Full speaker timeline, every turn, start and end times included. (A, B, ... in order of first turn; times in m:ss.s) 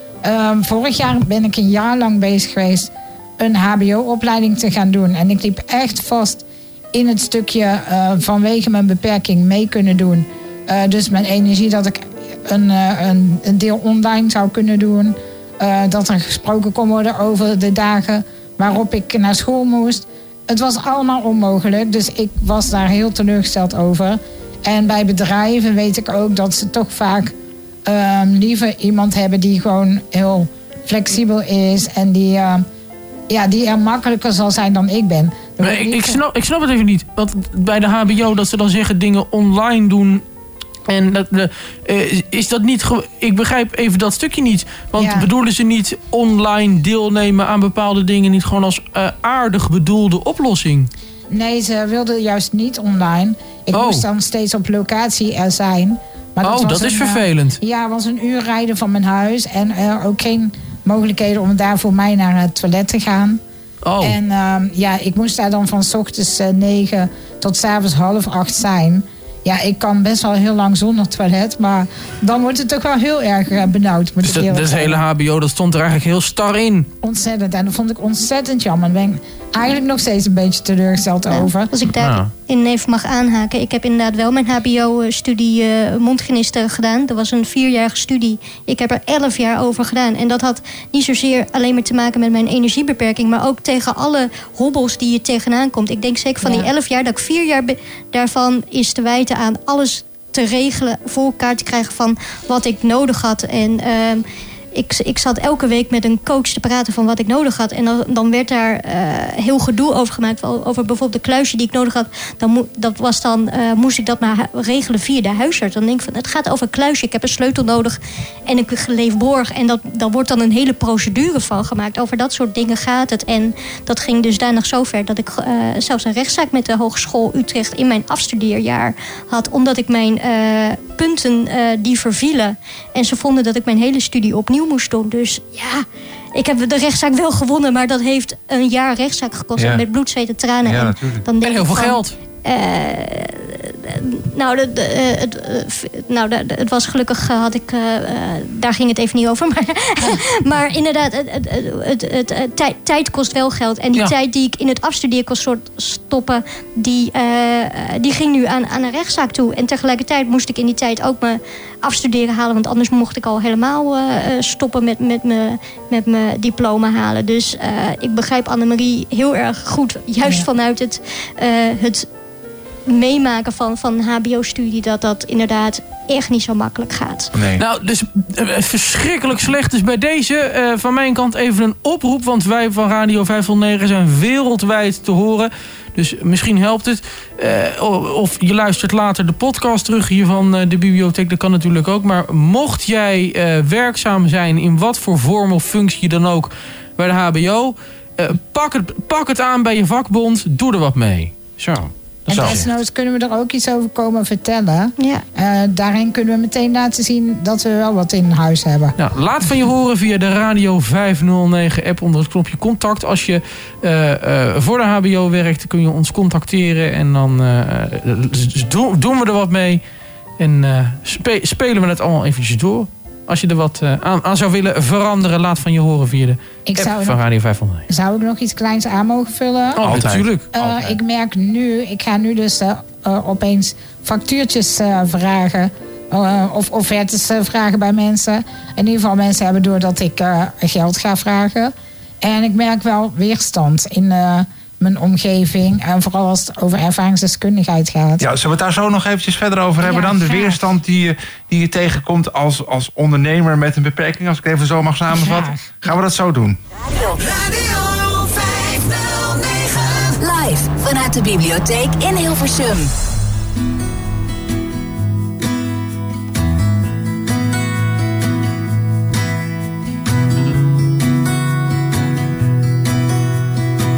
0:00.2-0:27.3 A
0:27.9-0:32.6 A
0:33.3-0:36.2 A
0:35.6-0:40.2 B
0:40.9-0:50.9 B
0:45.0-0:45.3 A
0:51.3-1:03.4 A
0:53.7-0:54.0 B
0:56.4-0:57.6 B
1:03.8-1:04.2 B
1:04.0-1:15.0 A
1:14.2-1:16.9 B
1:17.0-1:21.7 A
1:21.3-1:44.2 C
1:21.9-1:22.3 B
1:44.8-2:52.1 C
2:19.6-2:19.8 D
2:20.6-2:21.3 D
2:21.4-2:22.1 B
2:52.9-2:57.3 C
2:57.3-2:57.6 D
2:57.6-3:22.6 B
3:22.3-3:29.0 A
3:22.3-3:22.6 D
3:25.0-3:25.2 C
3:29.0-3:39.8 B
3:40.4-3:47.8 B
3:46.7-3:47.3 A
3:47.9-4:08.2 A
3:49.8-3:50.5 B
3:49.8-3:51.0 D
4:08.2-4:16.6 D
4:09.8-4:10.6 A
4:15.1-4:15.9 A
4:16.9-4:22.9 E